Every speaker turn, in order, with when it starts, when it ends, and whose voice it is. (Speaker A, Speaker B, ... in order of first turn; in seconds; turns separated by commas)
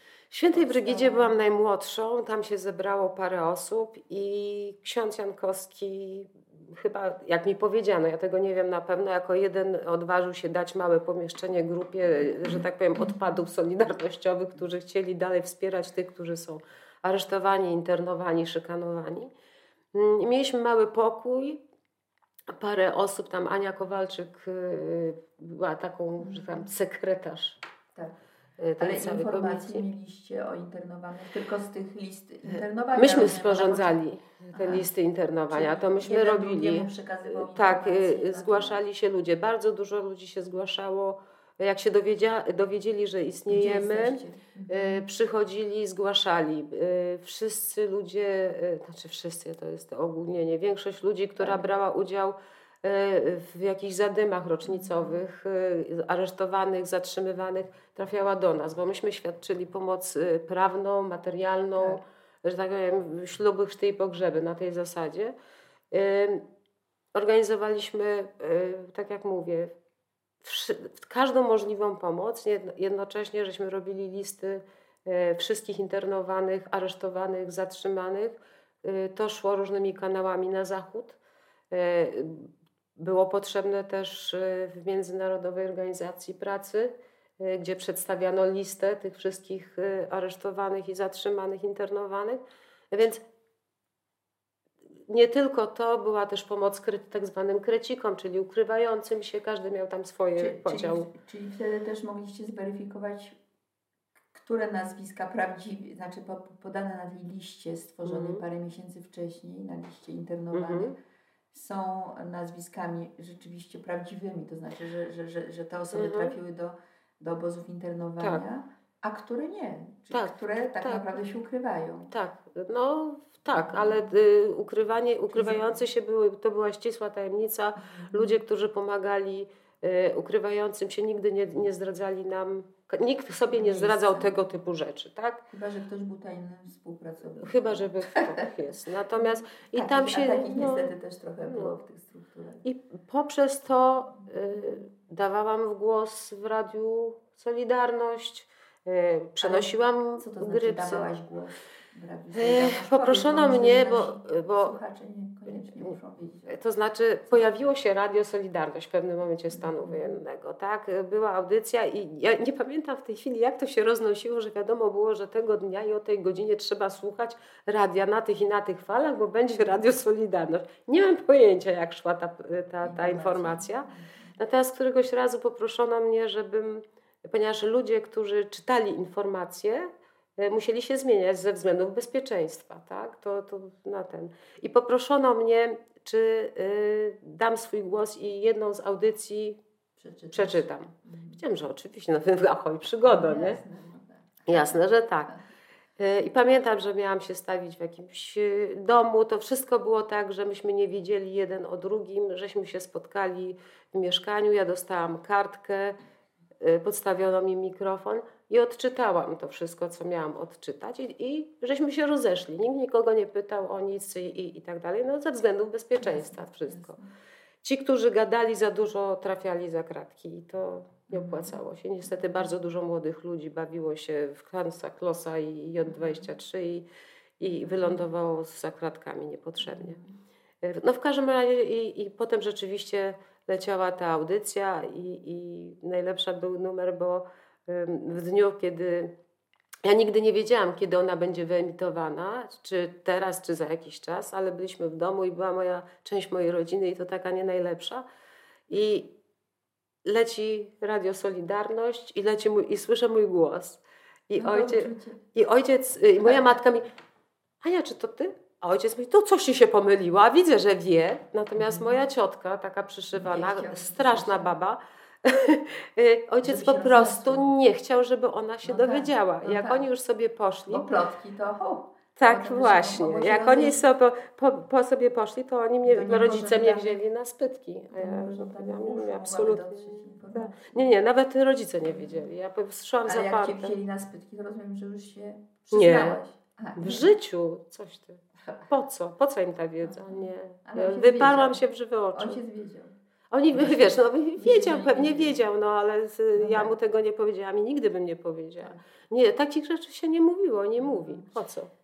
Speaker A: 0.3-19.3, Speaker B: 0.5-1.4, Speaker B: 12.5-13.2, Speaker A: 19.9-21.6, Speaker A: 22.5-27.6, Speaker B: 26.2-26.7, Speaker A: 28.6-29.9, Speaker B: 28.8-34.9, Speaker A: 33.0-65.3, Speaker B: 35.5-38.8, Speaker B: 43.5-45.1, Speaker B: 51.4-51.7, Speaker B: 54.6-55.2, Speaker A: 65.9-66.5, Speaker A: 67.1-69.8, Speaker A: 70.4-81.2, Speaker A: 81.7-93.2, Speaker A: 95.1-101.1, Speaker B: 100.4-103.4, Speaker B: 104.3-111.0, Speaker A: 108.0-108.4, Speaker A: 110.5-110.9, Speaker B: 111.5-122.1, Speaker A: 115.9-116.3, Speaker A: 120.1-121.1, Speaker A: 122.1-135.5, Speaker B: 123.5-124.1, Speaker B: 125.3-125.8, Speaker B: 127.8-128.4, Speaker B: 133.5-134.6, Speaker B: 135.5-142.6, Speaker A: 137.4-140.9, Speaker A: 141.5-141.8, Speaker A: 142.6-151.1, Speaker B: 144.2-144.8, Speaker B: 149.4-156.6, Speaker A: 152.3-154.8, Speaker A: 155.5-155.9, Speaker A: 156.5-189.6, Speaker B: 159.5-160.2, Speaker B: 172.8-174.4, Speaker B: 190.0-191.4, Speaker A: 190.3-193.6, Speaker B: 193.0-195.4, Speaker A: 194.5-195.3, Speaker A: 196.0-206.0, Speaker A: 206.6-217.0, Speaker B: 216.0-217.1, Speaker A: 217.6-226.9, Speaker B: 221.1-221.6, Speaker B: 225.8-226.3, Speaker A: 227.4-230.0, Speaker B: 227.5-228.1, Speaker B: 229.6-230.2, Speaker A: 230.6-239.1, Speaker A: 239.8-248.1, Speaker A: 248.7-249.1, Speaker A: 250.1-256.9, Speaker B: 254.4-255.2, Speaker B: 256.2-256.6, Speaker A: 257.6-270.9, Speaker B: 261.6-262.0, Speaker B: 263.1-264.6, Speaker B: 266.4-267.5, Speaker B: 268.6-269.9, Speaker B: 270.7-273.8, Speaker A: 272.2-283.7, Speaker B: 275.8-277.0, Speaker B: 277.9-280.9, Speaker B: 281.8-282.3, Speaker B: 283.1-287.1, Speaker A: 285.7-286.2, Speaker A: 286.8-292.4, Speaker B: 289.8-292.9, Speaker A: 293.3-301.7, Speaker B: 293.5-295.4, Speaker B: 296.3-296.8, Speaker B: 300.8-301.4